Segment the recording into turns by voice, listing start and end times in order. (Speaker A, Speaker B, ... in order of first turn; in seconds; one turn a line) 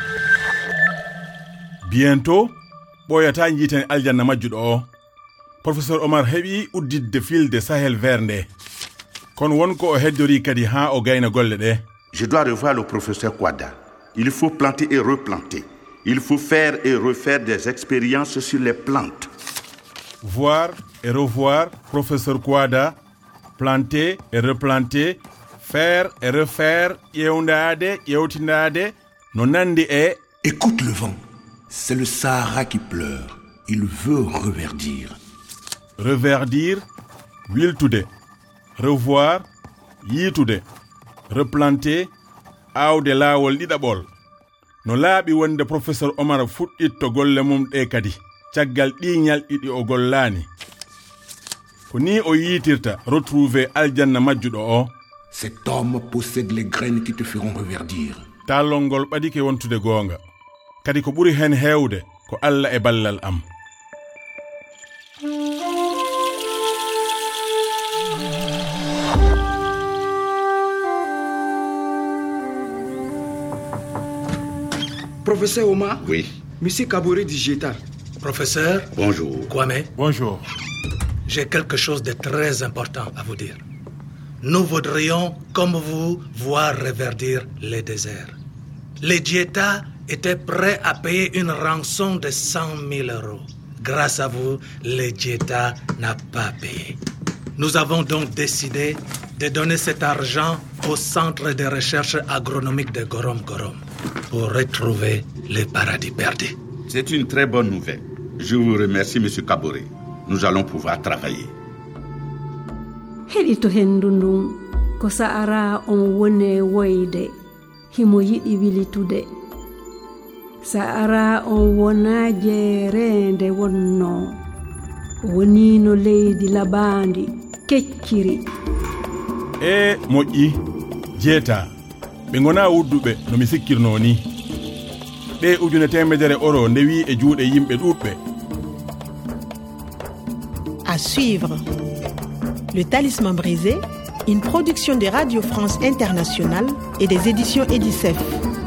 Speaker A: 1.8-2.5
Speaker A: 3.0-4.9
Speaker A: 5.6-8.5
Speaker A: 9.3-11.8
Speaker B: 12.1-19.3
Speaker A: 20.2-23.0
Speaker A: 23.6-30.2
Speaker C: 30.4-31.1
Speaker C: 31.7-35.1
Speaker A: 36.0-36.8
Speaker A: 37.5-38.1
Speaker A: 38.8-39.4
Speaker A: 40.0-40.6
Speaker A: 41.3-42.1
Speaker A: 42.7-44.1
Speaker A: 44.8-50.5
Speaker A: 51.9-54.9
Speaker C: 55.3-58.2
Speaker A: 58.5-60.2
Speaker A: 60.8-63.4
Speaker D: 75.2-77.8
Speaker B: 76.0-76.3
Speaker E: 78.2-78.9
Speaker B: 78.9-79.5
Speaker E: 79.5-79.9
Speaker A: 80.0-80.4
Speaker E: 81.3-83.6
Speaker E: 84.4-88.3
Speaker E: 89.0-97.0
Speaker E: 97.6-106.5
Speaker B: 106.9-111.5
Speaker F: 113.3-117.3
Speaker F: 117.9-119.3
Speaker F: 120.6-124.4
Speaker F: 125.2-128.4
Speaker A: 129.6-130.6
Speaker A: 131.1-131.7
Speaker A: 132.3-134.2
Speaker A: 135.4-138.2
Speaker G: 140.8-141.6
Speaker G: 142.7-148.4